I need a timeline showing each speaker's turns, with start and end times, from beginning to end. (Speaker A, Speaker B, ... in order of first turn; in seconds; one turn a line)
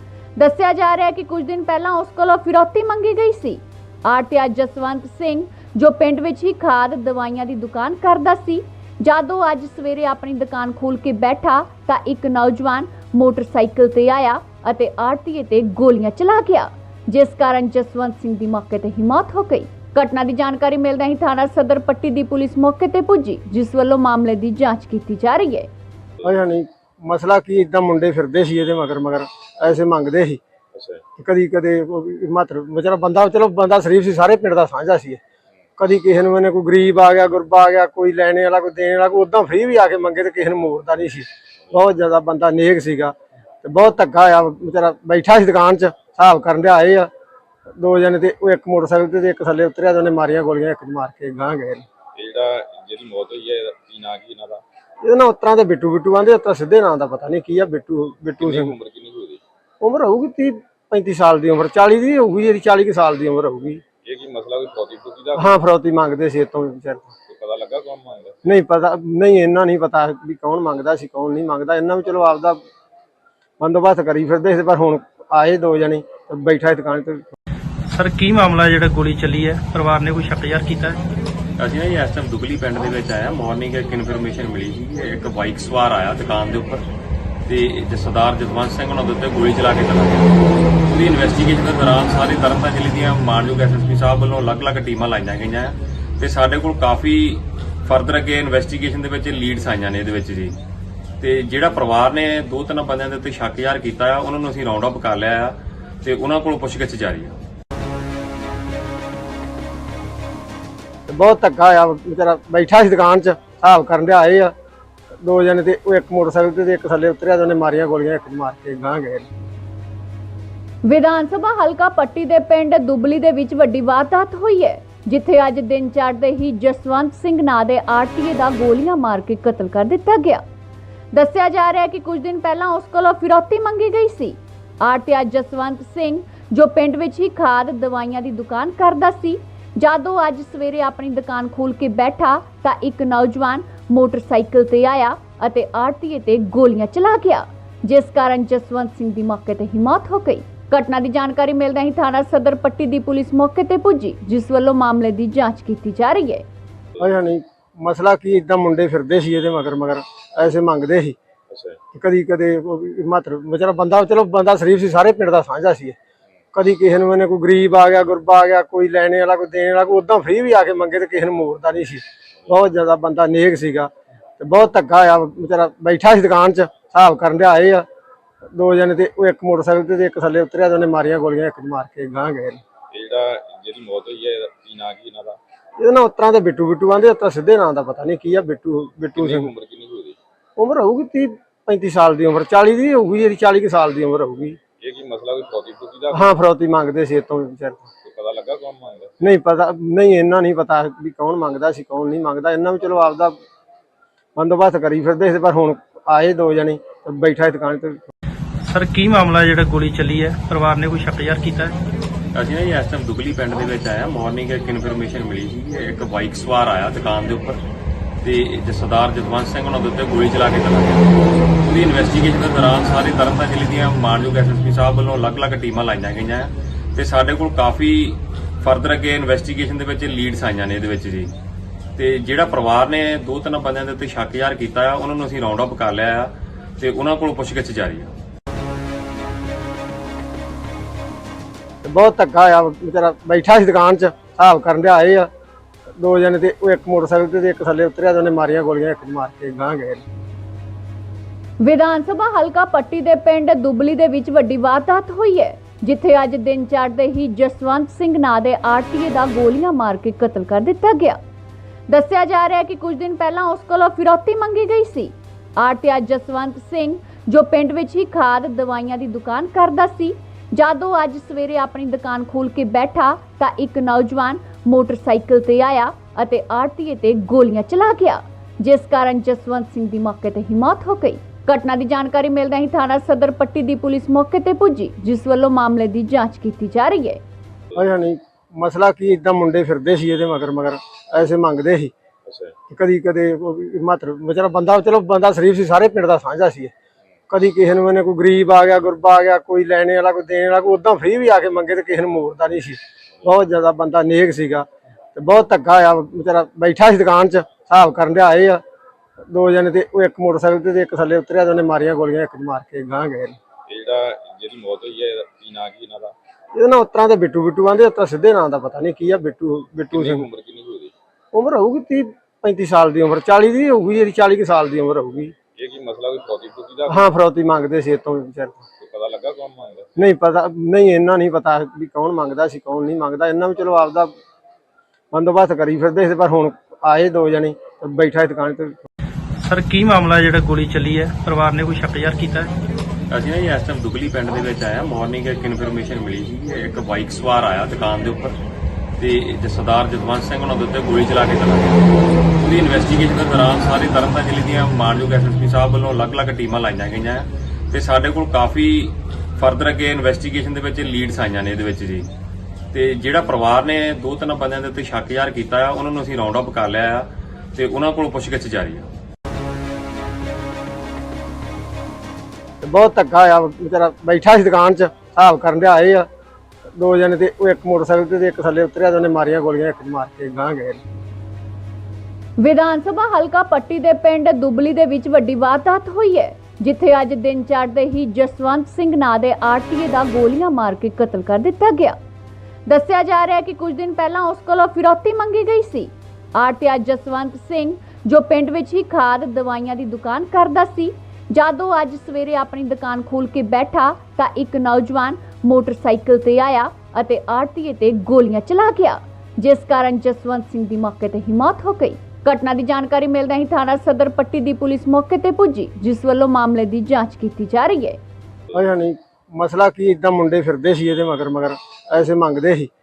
Speaker A: 0.4-25.7
Speaker B: 26.2-30.4
Speaker C: 30.7-31.0
Speaker B: 31.2-35.2
Speaker B: 35.8-47.1
Speaker B: 47.8-51.8
Speaker C: 52.1-54.6
Speaker B: 55.0-58.7
Speaker C: 58.4-59.4
Speaker B: 59.8-63.8
Speaker C: 64.0-65.6
Speaker B: 65.4-67.0
Speaker C: 67.3-68.4
Speaker B: 68.4-72.6
Speaker B: 73.6-77.3
Speaker D: 77.9-81.0
Speaker E: 81.6-86.8
Speaker E: 87.5-90.3
Speaker E: 90.9-100.6
Speaker E: 101.2-107.3
Speaker B: 111.1-114.5
Speaker B: 115.2-119.3
Speaker A: 120.8-130.4
Speaker A: 131.1-156.4
Speaker B: 157.0-161.2
Speaker C: 161.5-161.8
Speaker B: 161.9-166.0
Speaker B: 166.5-177.8
Speaker B: 178.5-182.6
Speaker C: 182.9-185.4
Speaker B: 185.8-189.5
Speaker C: 189.1-190.2
Speaker B: 190.6-194.6
Speaker C: 194.8-196.3
Speaker B: 196.1-197.8
Speaker C: 198.0-199.2
Speaker B: 199.2-203.3
Speaker B: 204.3-208.1
Speaker D: 208.7-211.8
Speaker E: 212.3-217.6
Speaker E: 218.2-221.1
Speaker E: 221.7-231.3
Speaker E: 232.0-238.1
Speaker B: 241.8-245.3
Speaker B: 246.0-250.0
Speaker A: 251.6-261.2
Speaker A: 261.9-287.2
Speaker B: 287.7-291.9
Speaker C: 292.3-292.5
Speaker B: 292.7-296.7
Speaker B: 297.3-308.6
Speaker B: 309.3-313.3
Speaker C: 313.7-316.1
Speaker B: 316.6-320.2
Speaker C: 319.9-320.9
Speaker B: 321.3-325.3
Speaker C: 325.6-327.1
Speaker B: 326.9-328.6
Speaker C: 328.8-329.9
Speaker B: 330.0-334.1
Speaker B: 335.1-338.9
Speaker D: 339.5-342.5
Speaker E: 343.1-348.4
Speaker E: 349.0-351.8
Speaker E: 352.4-362.1
Speaker E: 362.7-368.9
Speaker B: 372.6-376.1
Speaker B: 376.8-380.8
Speaker A: 382.4-392.0
Speaker A: 392.7-418.0
Speaker B: 418.5-422.7